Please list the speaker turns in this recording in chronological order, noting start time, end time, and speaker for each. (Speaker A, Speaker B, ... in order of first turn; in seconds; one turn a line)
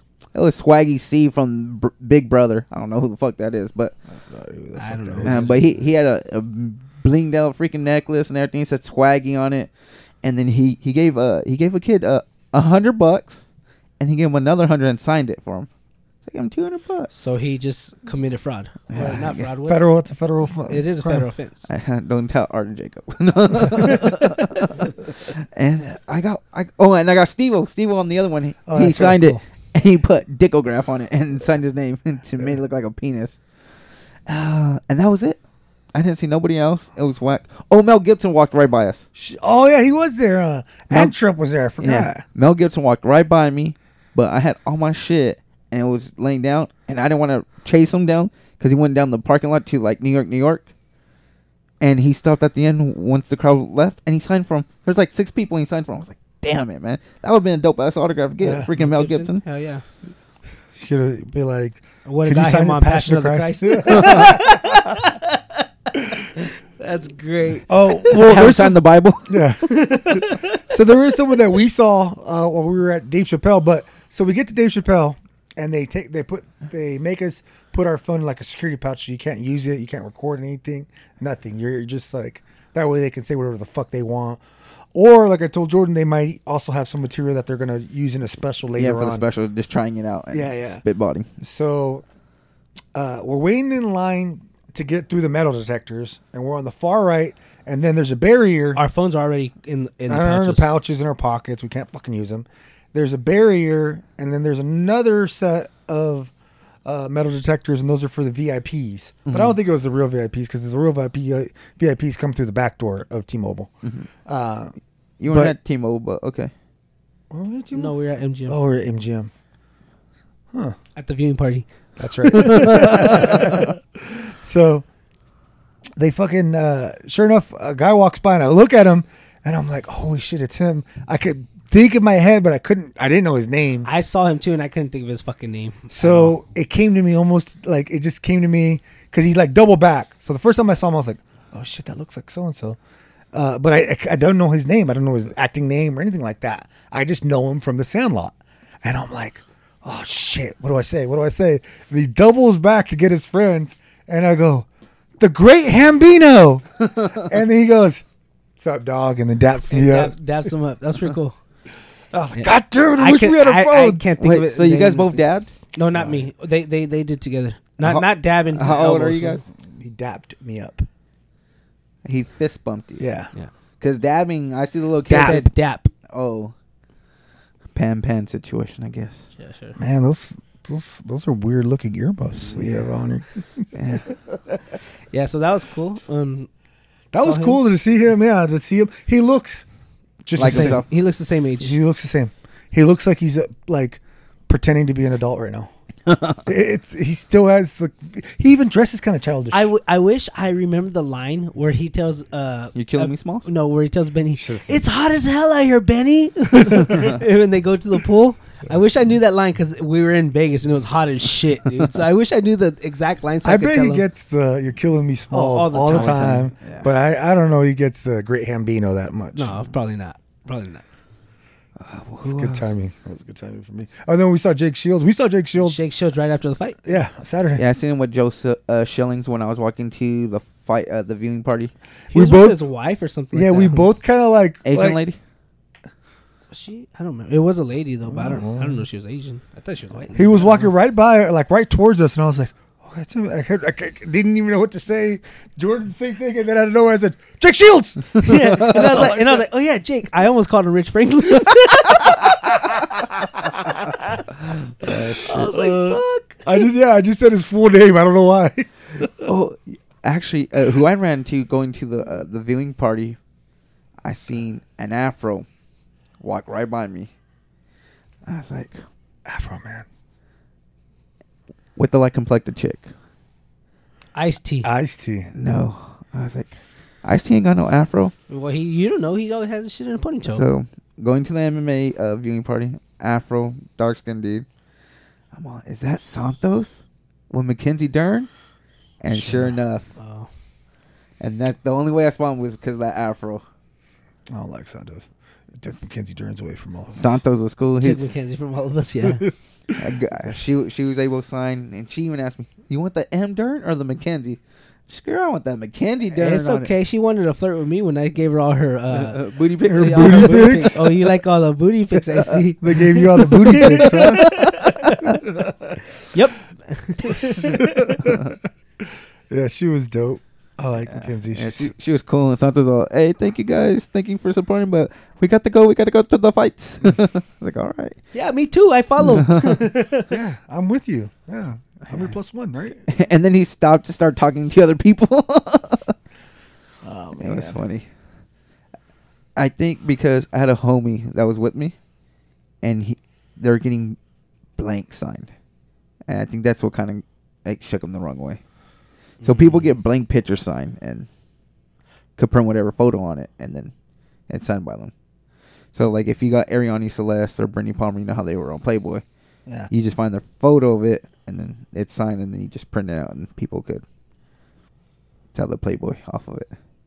Speaker A: 0.3-3.9
Speaker B: 4.1-5.8
Speaker C: 4.8-5.6
Speaker A: 5.2-9.7
Speaker A: 10.2-13.4
Speaker A: 14.0-15.7
Speaker A: 16.2-17.1
Speaker C: 17.1-19.8
Speaker A: 18.9-19.4
Speaker B: 19.0-21.2
Speaker C: 20.7-21.7
Speaker A: 21.7-33.4
Speaker B: 28.7-29.4
Speaker A: 34.2-35.4
Speaker A: 35.9-39.0
Speaker B: 39.1-42.2
Speaker A: 41.8-50.7
Speaker A: 51.8-59.4
Speaker B: 58.4-58.7
Speaker C: 58.7-59.8
Speaker B: 60.7-64.7
Speaker C: 62.0-68.2
Speaker A: 63.9-64.3
Speaker B: 67.7-84.4
Speaker A: 68.1-69.5
Speaker C: 69.7-70.6
Speaker B: 84.9-89.2
Speaker A: 88.8-91.3
Speaker B: 90.3-90.8
Speaker B: 91.4-92.0
Speaker B: 92.9-98.8
Speaker C: 98.7-100.7
Speaker B: 100.1-106.3
Speaker B: 106.8-113.7
Speaker A: 109.2-109.6
Speaker B: 114.2-114.7
Speaker A: 115.2-116.5
Speaker B: 115.3-115.5
Speaker B: 117.3-117.9
Speaker C: 117.7-118.6
Speaker B: 118.5-119.3
Speaker C: 121.0-123.7
Speaker B: 122.0-124.8
Speaker A: 122.7-123.6
Speaker B: 126.0-133.9
Speaker C: 133.8-136.3
Speaker B: 135.9-142.8
Speaker B: 143.3-154.7
Speaker B: 155.2-158.0
Speaker B: 158.6-160.2
Speaker C: 159.7-161.4
Speaker B: 162.1-164.1
Speaker C: 162.3-165.2
Speaker A: 164.2-165.5
Speaker C: 165.7-169.4
Speaker B: 165.9-166.3
Speaker A: 167.8-169.4
Speaker B: 169.6-170.9
Speaker A: 172.0-173.1
Speaker B: 173.0-173.3
Speaker A: 173.8-175.5
Speaker B: 175.1-175.4
Speaker C: 175.1-175.9
Speaker A: 176.1-176.5
Speaker A: 177.7-179.3
Speaker C: 179.4-179.8
Speaker B: 179.8-183.6
Speaker A: 183.7-184.1
Speaker C: 185.1-186.5
Speaker B: 187.1-189.7
Speaker C: 187.1-187.6
Speaker B: 190.2-190.8
Speaker A: 190.4-190.8
Speaker C: 190.4-191.8
Speaker B: 191.6-195.7
Speaker A: 196.1-196.4
Speaker B: 196.4-199.7
Speaker C: 199.5-214.0
Speaker A: 202.7-203.5
Speaker B: 204.4-204.8
Speaker B: 206.6-207.0
Speaker B: 213.4-219.6
Speaker C: 215.3-216.5
Speaker A: 215.9-216.9
Speaker C: 219.3-220.8
Speaker A: 221.8-222.7
Speaker B: 222.2-225.8
Speaker C: 225.6-226.8
Speaker B: 226.8-227.6
Speaker A: 227.6-231.7
Speaker C: 232.1-233.9
Speaker B: 232.1-232.6
Speaker B: 233.3-235.0
Speaker A: 234.6-235.2
Speaker C: 236.5-240.7
Speaker B: 238.1-238.8
Speaker B: 240.1-249.4
Speaker C: 248.2-252.3
Speaker B: 253.6-253.9
Speaker A: 254.8-255.3
Speaker B: 254.8-259.1
Speaker C: 254.9-256.4
Speaker A: 259.2-263.2
Speaker A: 264.0-265.4
Speaker A: 266.2-267.1
Speaker A: 268.2-268.8
Speaker B: 269.2-269.9
Speaker A: 271.8-272.9
Speaker C: 274.1-274.7
Speaker B: 274.6-275.3
Speaker A: 275.3-278.1
Speaker C: 278.3-280.4
Speaker A: 280.2-284.4
Speaker A: 285.3-288.3
Speaker A: 289.0-289.9
Speaker B: 289.1-289.6
Speaker C: 289.9-290.3
Speaker A: 291.2-293.4
Speaker B: 294.3-297.2
Speaker A: 297.0-298.0
Speaker C: 297.8-299.3
Speaker A: 299.8-306.7
Speaker C: 306.1-315.1
Speaker A: 308.9-310.8
Speaker B: 309.7-310.9
Speaker B: 312.6-314.4
Speaker A: 313.7-315.2
Speaker B: 315.0-315.8
Speaker C: 316.1-318.1
Speaker B: 317.2-318.4
Speaker A: 318.0-318.3
Speaker B: 319.3-321.7
Speaker A: 320.9-328.0
Speaker C: 328.1-330.1
Speaker A: 329.0-329.6
Speaker B: 330.1-332.9
Speaker A: 332.9-335.9
Speaker B: 336.8-337.6
Speaker A: 337.2-337.9
Speaker A: 339.4-341.7
Speaker A: 342.6-344.0
Speaker A: 344.6-345.3
Speaker A: 346.1-348.4
Speaker C: 349.2-349.6
Speaker A: 349.2-351.1
Speaker A: 352.2-353.7
Speaker A: 354.3-354.9
Speaker A: 355.7-359.0
Speaker A: 359.7-363.8
Speaker A: 365.3-366.5